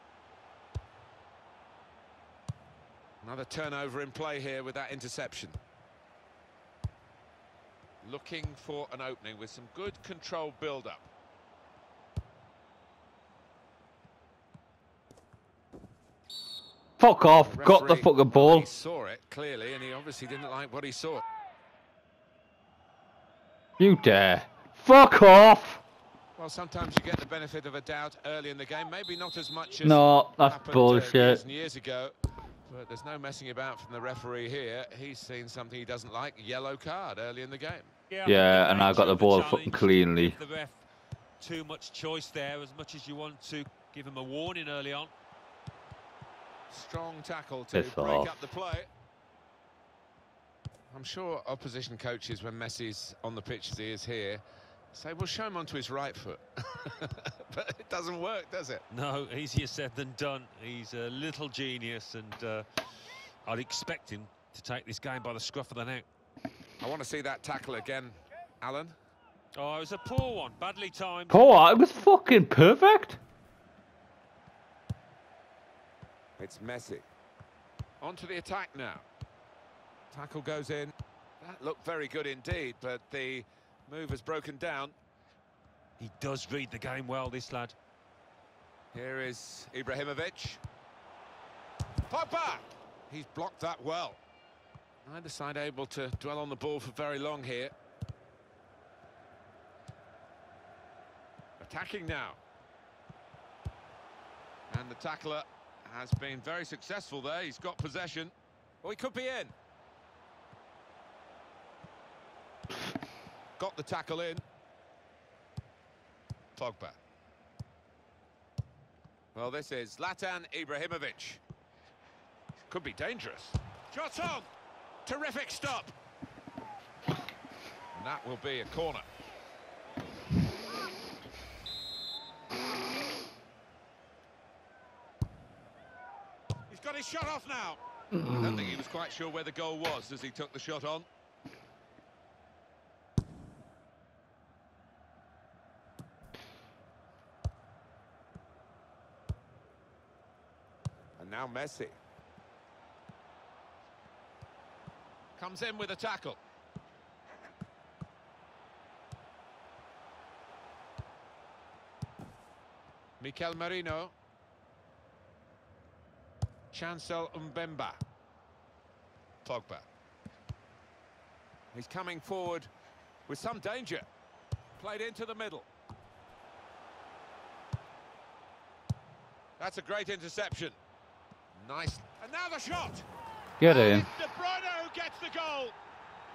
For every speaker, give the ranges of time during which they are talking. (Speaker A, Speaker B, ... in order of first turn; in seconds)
Speaker A: 3.2-5.6, 8.0-11.1, 17.5-21.2, 26.4-32.1, 32.7-37.9, 46.7-48.9, 50.9-54.4, 54.9-58.9, 66.8-69.0, 76.4-77.1, 78.0-79.1, 80.1-85.0, 88.9-90.6, 92.1-94.2, 95.0-97.7, 101.6-102.4, 104.7-109.5, 113.6-114.5, 116.6-117.0, 119.3-121.4, 122.7-124.5, 125.0-125.9, 127.9-129.1, 136.7-141.1, 151.2-152.0, 155.4-156.4, 163.2-164.1, 166.7-168.0, 169.4-169.9, 171.7-172.7, 173.3-174.1, 174.8-175.7, 179.6-180.8, 181.6-183.1, 183.6-185.8
Speaker B: 17.0-18.7, 23.8-25.8, 29.8-31.4, 38.2-40.4, 47.7-48.4, 71.3-73.2, 138.1-138.6, 183.6-184.1
Speaker C: 38.1-40.8, 41.4-45.1, 58.9-62.9, 63.5-66.1, 69.6-71.4, 86.0-87.8